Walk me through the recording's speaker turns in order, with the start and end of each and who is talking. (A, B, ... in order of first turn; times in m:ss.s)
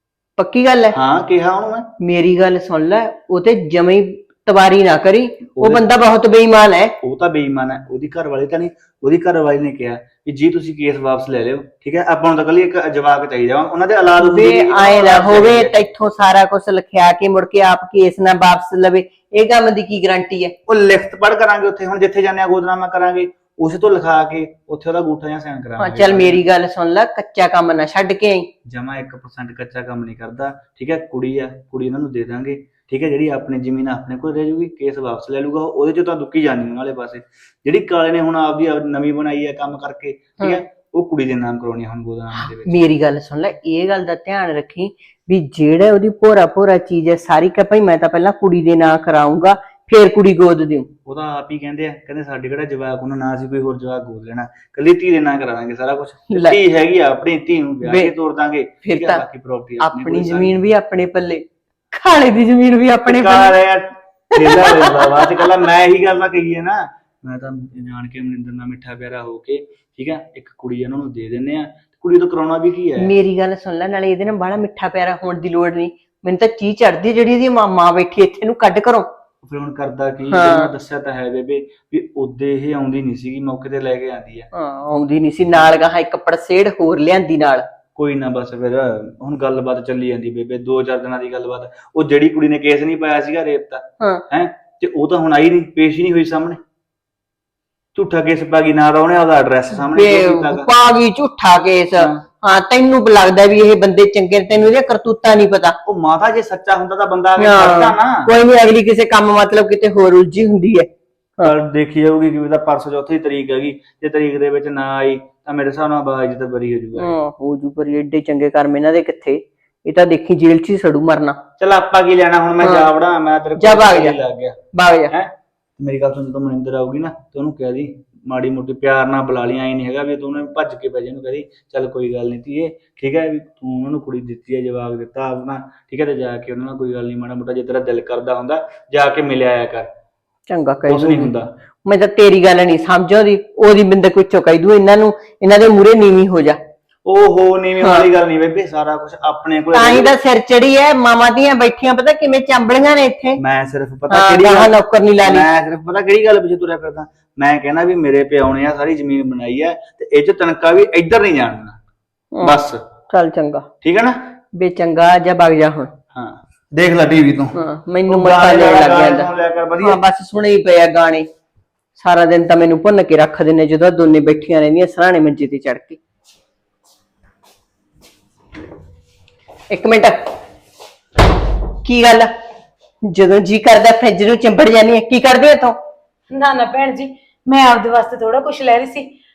0:00.4-0:01.0 A
0:00.9-0:01.9 B
0:02.0-0:07.0 A
0:05.6-0:05.8 B
0:07.0-0:15.7 B
0:14.2-0:20.6 A
0:20.7-0:26.4 B
0:25.8-0:28.5 A
0:28.7-0:42.8 B
0:42.3-0:50.9 A
0:51.1-1:00.6 B
0:56.3-0:56.6 A
0:57.8-0:58.1 A
0:58.8-0:59.2 A
0:59.8-1:03.6 A
1:03.1-1:13.1 B
1:04.3-1:05.2 A
1:13.0-1:19.1 A
1:19.4-1:24.5 B
1:20.3-1:20.7 A
1:24.5-1:27.7 A
1:28.0-1:36.6 B
1:38.0-1:40.7 B
1:39.8-1:45.8 A
1:45.9-1:48.3 B
1:47.4-1:51.5 A
1:51.4-1:57.1 B
1:57.0-2:01.4 A
2:01.6-2:04.6 B
2:02.6-2:02.9 A
2:03.6-2:04.2 A
2:04.7-2:05.1 A
2:05.1-2:19.9 B
2:20.5-2:21.3 A
2:20.9-2:21.5 B
2:21.8-2:26.6 A
2:27.0-2:30.2 B
2:27.8-2:28.1 A
2:29.7-2:33.4 A
2:33.4-2:41.8 B
2:34.1-2:35.5 A
2:42.4-2:42.8 B
2:43.1-2:43.7 A
2:43.8-2:44.2 B
2:44.5-2:45.9 A
2:46.1-2:47.6 B
2:47.6-2:49.3 A
2:48.1-2:50.0 B
2:49.8-2:51.3 A
2:52.0-2:56.0 A
2:59.7-3:00.3 A
3:01.8-3:02.3 A
3:03.0-3:05.8 A
3:06.3-3:09.1 C